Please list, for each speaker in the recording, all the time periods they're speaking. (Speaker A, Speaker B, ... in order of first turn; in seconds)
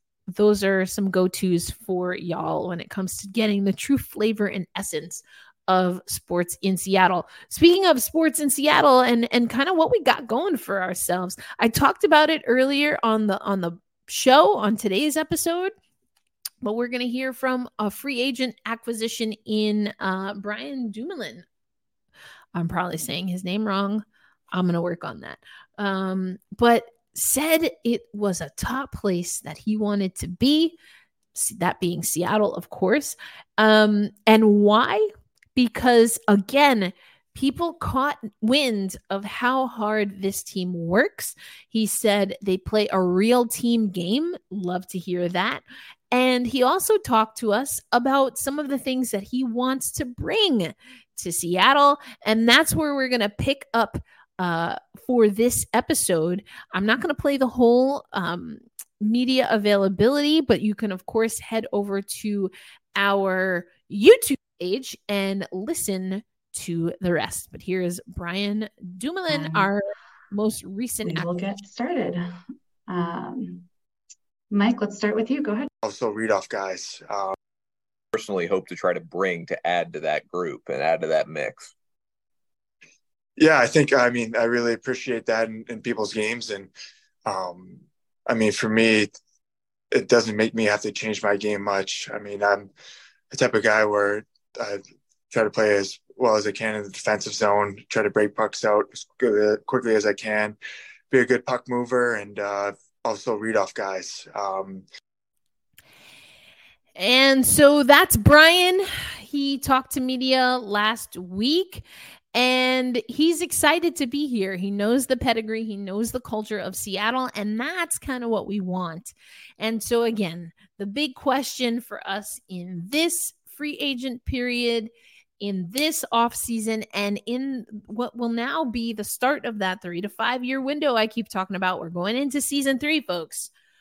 Speaker A: 0.3-15.7, 16.6-21.4, 22.5-30.8, 31.3-71.6, 107.0-124.9, 125.4-133.5
Speaker B: 69.3-69.7, 71.0-72.3, 72.9-73.7, 74.5-75.7
Speaker C: 75.8-77.3, 83.4-86.7, 87.2-89.1, 89.9-92.7, 93.3-100.6, 101.1-104.8
Speaker D: 78.1-81.7